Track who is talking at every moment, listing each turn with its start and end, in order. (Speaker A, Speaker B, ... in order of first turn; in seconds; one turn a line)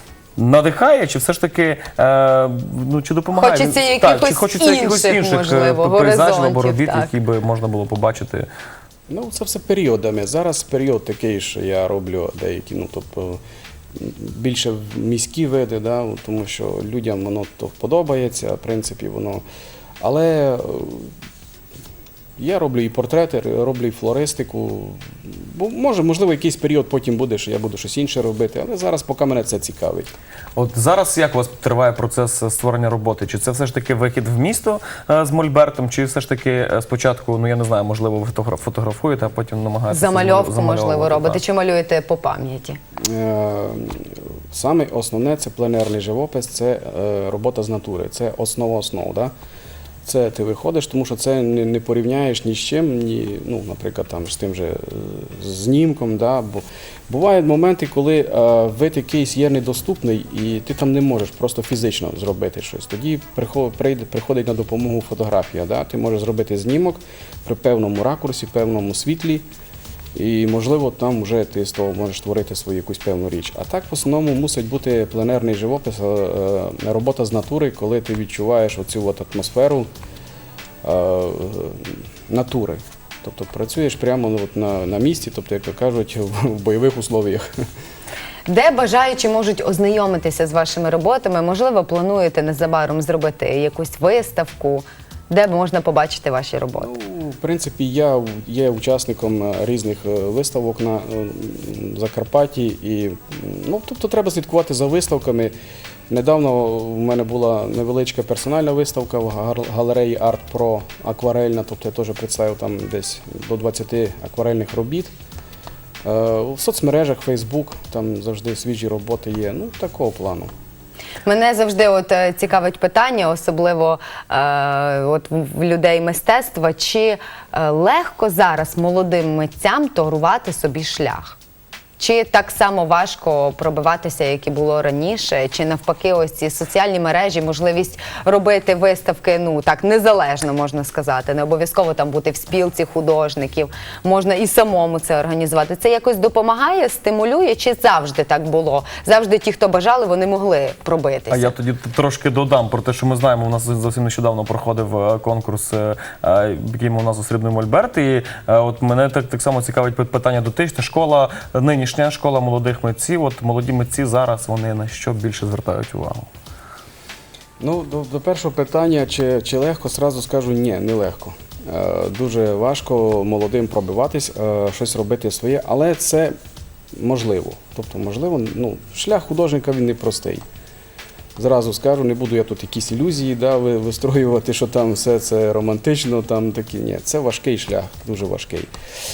Speaker A: 0.4-8.5
Speaker B: 3.3-7.2
Speaker C: 9.1-13.4
Speaker C: 13.9-19.4
Speaker C: 20.0-21.1
Speaker C: 22.4-30.1
Speaker A: 30.6-41.4
Speaker B: 39.9-42.8
Speaker C: 43.1-49.3
Speaker C: 50.0-69.5
Speaker C: 70.2-79.9
Speaker C: 80.8-87.5
Speaker B: 88.5-96.9
Speaker C: 96.8-105.5
Speaker C: 106.1-115.1
Speaker C: 116.0-120.5
Speaker B: 121.2-131.4
Speaker B: 132.0-151.5
Speaker A: 151.3-166.3
Speaker C: 167.6-176.3
Speaker C: 176.9-180.4
Speaker C: 181.4-188.7